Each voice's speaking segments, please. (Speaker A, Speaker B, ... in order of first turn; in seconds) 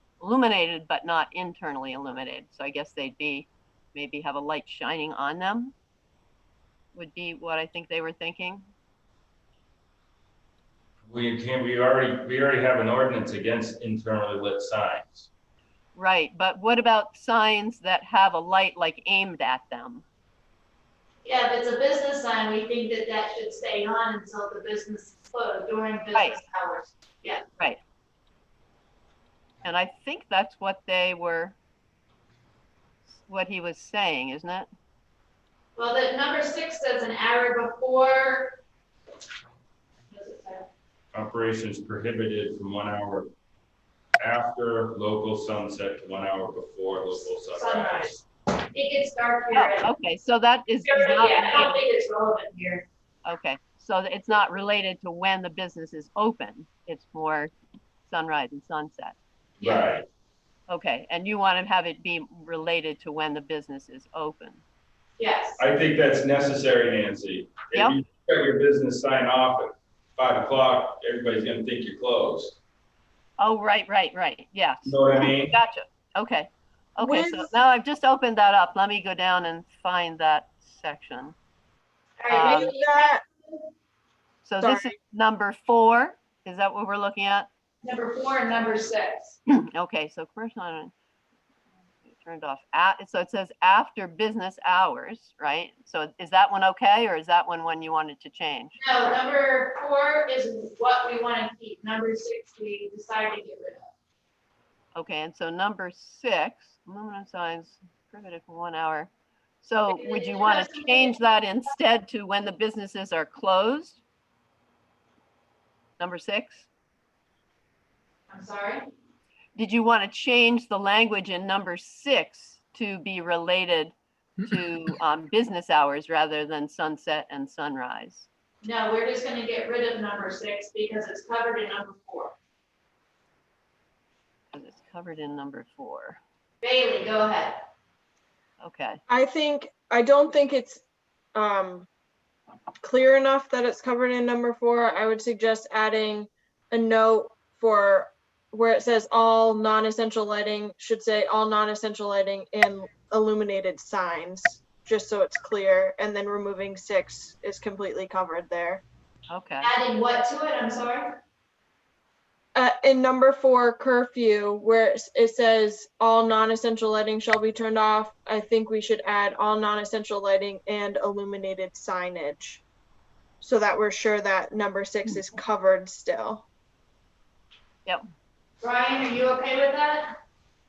Speaker A: 0.2-5.8, 6.9-8.7, 15.9-20.0, 26.1-26.4, 29.6-31.6, 33.1-34.7, 49.5-51.8, 53.2-57.5, 58.1-59.2, 60.7-64.6, 73.4-81.4, 82.3-82.7, 84.4-87.5, 89.7-90.9, 92.1-98.8, 105.0-109.1, 109.6-114.0, 116.0-116.7, 119.6-128.3, 134.5-136.2, 138.6-139.0, 159.3-159.7
Speaker B: 11.1-15.3, 41.1-43.3, 44.2-48.2, 59.6-60.0, 65.6-72.6, 74.8-75.6
Speaker C: 21.2-27.4, 35.8-38.6, 40.1-40.7, 47.5-48.1, 48.7-49.9, 50.9-52.9, 65.2-65.6, 82.2-83.1, 87.8-89.4, 98.8-103.9, 109.9-111.2, 118.3-118.8, 128.6-132.3, 136.6-137.6, 159.6-161.2, 178.6-180.1
Speaker D: 77.0-77.5, 82.5-83.2, 84.6-84.9, 139.1-140.8, 141.3-141.9, 142.8-158.8, 162.6-172.6, 173.4-176.4